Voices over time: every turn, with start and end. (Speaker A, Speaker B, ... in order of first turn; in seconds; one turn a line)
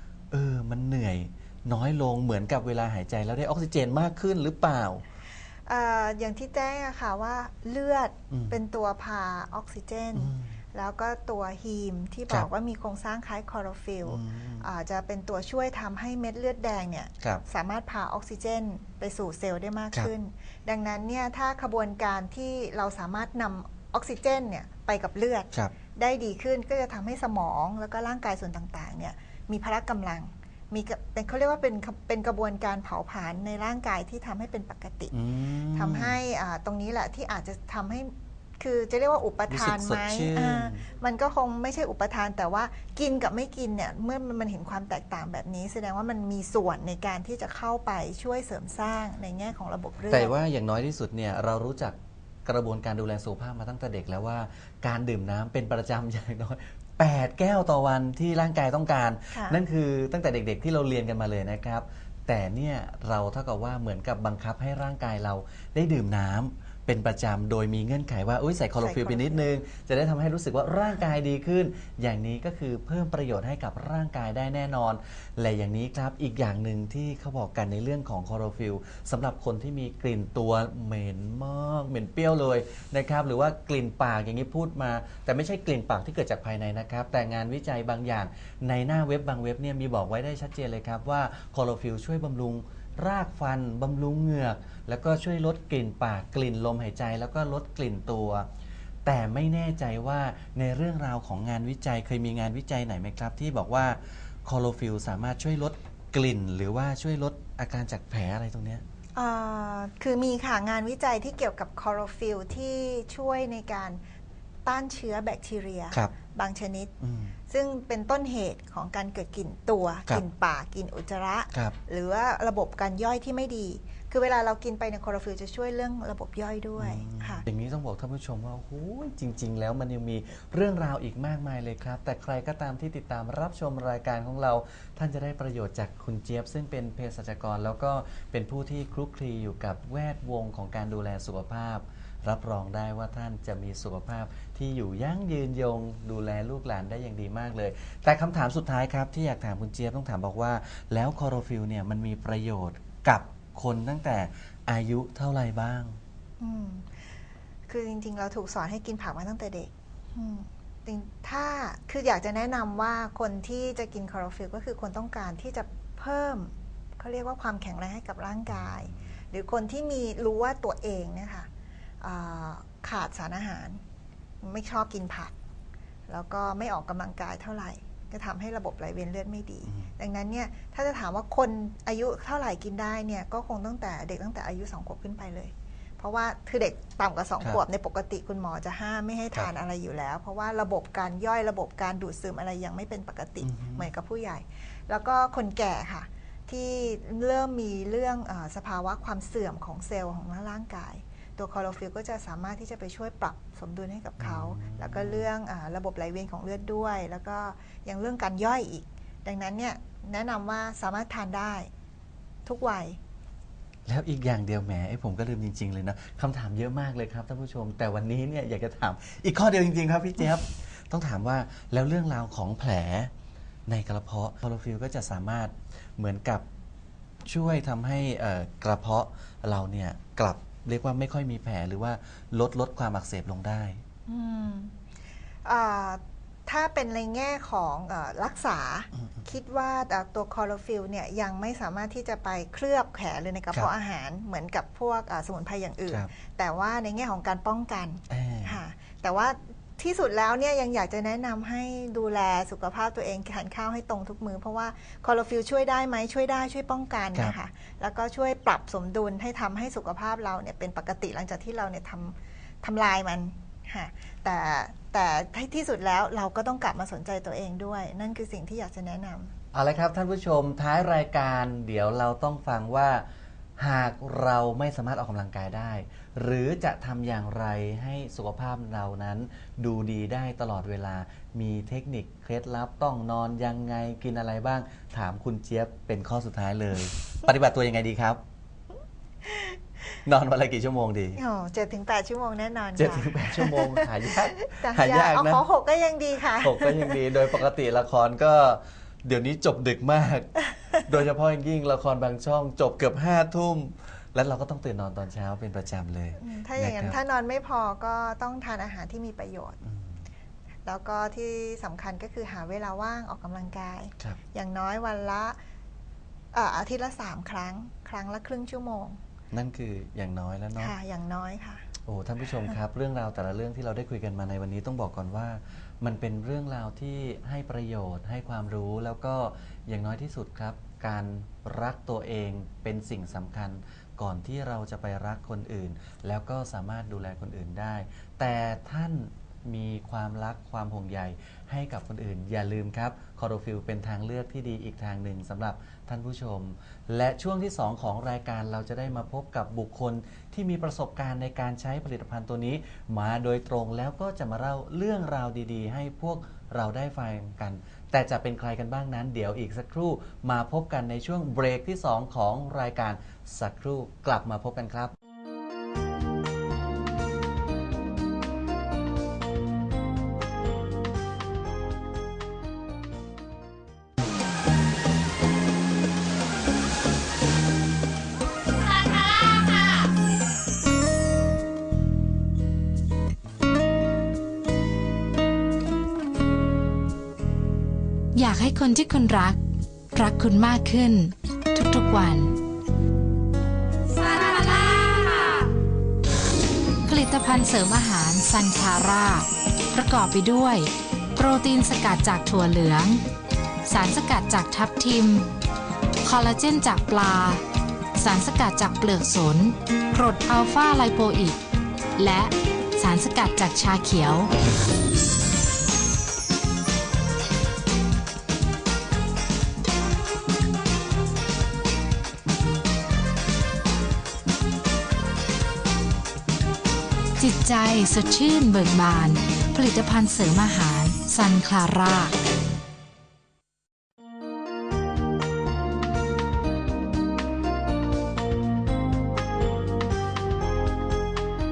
Speaker A: 0.3-5.0
Speaker B: 5.7-35.1
Speaker A: 8.3-8.6
Speaker A: 10.1-10.6
Speaker A: 14.0-14.7
Speaker A: 35.1-36.2
Speaker B: 35.8-50.3
Speaker A: 39.5-40.8
Speaker A: 50.1-98.5
Speaker B: 59.3-59.6
Speaker B: 68.8-69.5
Speaker A: 99.0-108.8
Speaker B: 109.1-114.0
Speaker B: 114.7-116.9
Speaker A: 117.0-117.3
Speaker B: 117.5-127.4
Speaker A: 126.8-156.0
Speaker B: 156.4-156.9
Speaker B: 157.7-171.5
Speaker A: 168.5-169.1
Speaker B: 172.0-173.8
Speaker B: 174.4-175.3
Speaker B: 176.1-211.7
Speaker A: 179.6-179.9
Speaker A: 193.4-193.9
Speaker A: 204.2-205.3
Speaker B: 212.4-213.0
Speaker A: 213.8-223.1
Speaker A: 223.7-226.4
Speaker A: 227.2-233.8
Speaker B: 234.1-234.7
Speaker B: 235.4-269.3
Speaker A: 248.1-248.6
Speaker A: 269.5-273.1
Speaker A: 273.6-288.2
Speaker A: 290.0-291.2
Speaker B: 291.2-293.9
Speaker A: 292.8-295.4
Speaker B: 294.4-297.0
Speaker A: 296.4-307.0
Speaker B: 306.2-309.6
Speaker A: 309.6-310.0
Speaker B: 310.6-315.4
Speaker B: 316.3-319.0
Speaker A: 319.3-320.7
Speaker B: 320.6-321.6
Speaker A: 321.8-364.9
Speaker C: 388.1-389.4
Speaker C: 389.9-392.3
Speaker C: 393.9-395.5
Speaker C: 396.9-403.0
Speaker C: 403.6-405.3
Speaker C: 406.0-407.4
Speaker C: 408.0-411.4
Speaker C: 412.0-414.3
Speaker C: 427.2-432.1